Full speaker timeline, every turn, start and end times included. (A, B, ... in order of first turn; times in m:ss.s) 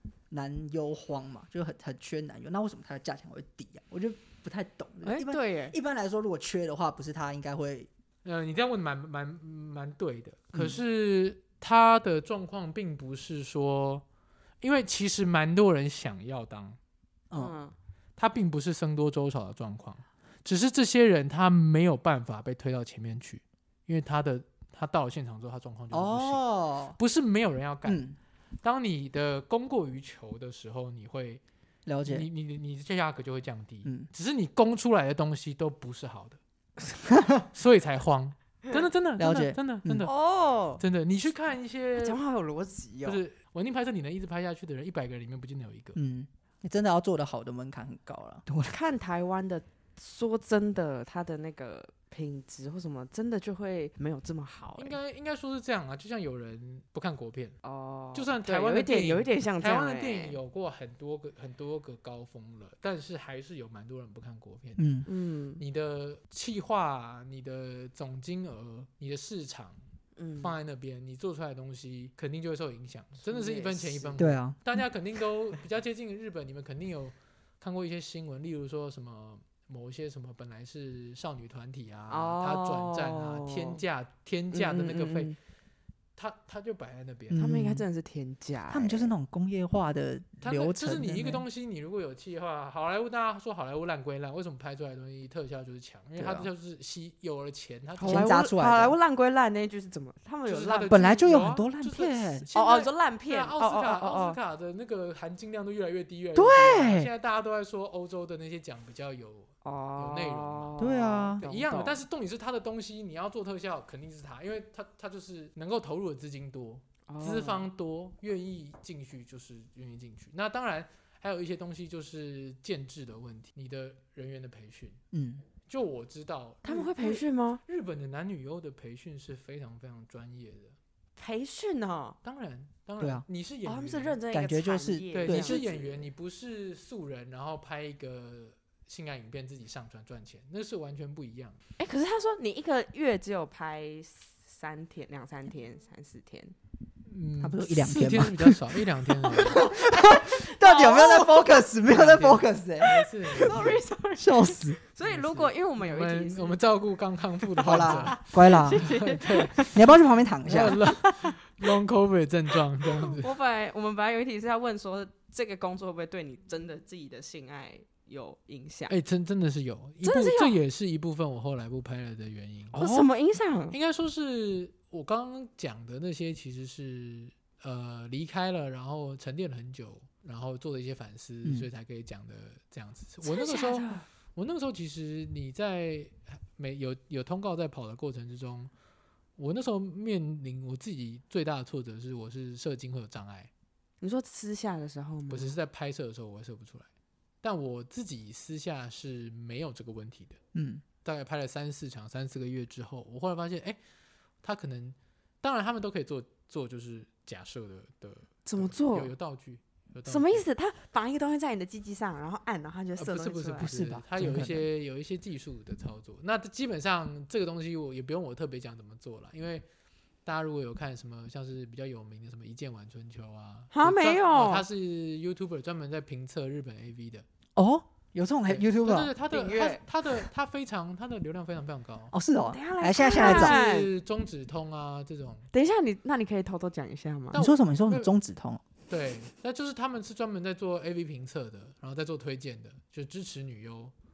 0:00.3-0:07.9 A
0:05.0-0:05.8 B
0:08.2-0:14.0 C
0:10.5-0:10.8 A
0:14.6-0:16.8 C
0:17.3-0:17.7 B
0:18.2-0:26.4 C
0:25.9-0:27.0 A
0:27.0-0:28.0 C
0:27.8-0:28.2 A
0:28.6-0:31.4 C
0:31.8-0:32.3 A
0:32.0-0:36.4 C
0:37.1-0:37.4 A
0:37.5-0:40.1 C
0:39.2-0:40.1 A
0:40.0-0:40.8 B
0:40.8-0:42.2 C
0:42.0-0:43.2 B
0:43.0-0:46.0 C
0:45.9-0:48.7 A
0:48.7-0:55.0 B
0:54.8-0:57.6 C
0:57.6-1:00.4 B
0:58.1-1:04.8 C
1:04.8-1:05.0 A
1:05.0-1:05.6 B
1:05.6-1:09.8 C
1:10.2-1:10.5 B
1:10.4-1:25.4 C
1:13.2-1:14.2 B
1:14.2-1:14.6 A
1:22.1-1:23.8 B
1:24.5-1:25.4 B
1:26.2-1:27.4 C
1:27.3-1:27.8 A
1:27.4-1:29.1 B
1:28.7-1:31.4 A
1:30.4-1:38.3 C
1:36.2-1:36.5 A
1:38.0-1:41.0 B
1:38.0-1:39.0 A
1:40.4-1:50.8 C
1:40.9-1:42.5 A
1:42.5-1:44.4 B
1:46.3-1:47.1 A
1:49.6-1:52.0 B
1:50.8-1:51.4 A
1:51.4-2:05.0 C
1:57.1-1:57.7 B
2:05.1-2:05.4 A
2:05.6-2:10.8 C
2:06.6-2:07.6 B
2:11.2-2:12.2 B
2:12.2-2:14.2 C
2:13.0-2:13.2 A
2:13.6-2:16.1 B
2:14.3-2:15.6 A
2:15.1-2:21.6 C
2:21.8-2:26.5 B
2:27.1-2:29.6 C
2:27.4-2:32.9 A
2:29.5-2:31.7 B
2:31.9-2:33.8 C
2:32.8-2:36.6 B
2:33.4-2:34.8 A
2:35.3-2:39.8 C
2:37.6-2:38.9 A
2:37.7-2:39.8 B
2:39.7-2:40.8 A
2:40.4-2:43.3 C
2:40.6-2:41.7 B
2:42.9-2:48.9 B
2:48.9-2:53.1 C
2:50.0-2:50.6 B
2:52.7-2:53.8 B
2:53.7-3:08.7 C
3:03.2-3:04.0 B
3:09.4-3:13.5 C
3:14.0-3:15.5 B
3:15.3-3:16.8 C
3:17.4-3:20.4 C
3:20.5-3:20.8 A
3:21.0-3:23.8 C
3:24.4-3:30.4 C
3:28.4-3:29.1 B
3:30.1-3:33.7 B
3:33.0-3:39.6 C
3:33.6-3:34.7 A
3:40.2-3:47.2 C
3:43.7-3:44.6 B
3:47.6-3:49.1 A
3:48.5-3:52.1 C
3:49.3-3:49.8 B
3:52.1-3:53.6 A
3:52.4-3:53.9 B
3:53.1-3:55.4 C
3:55.5-3:57.4 B
3:57.3-3:58.1 C
3:57.3-3:58.6 A
3:58.9-4:03.9 C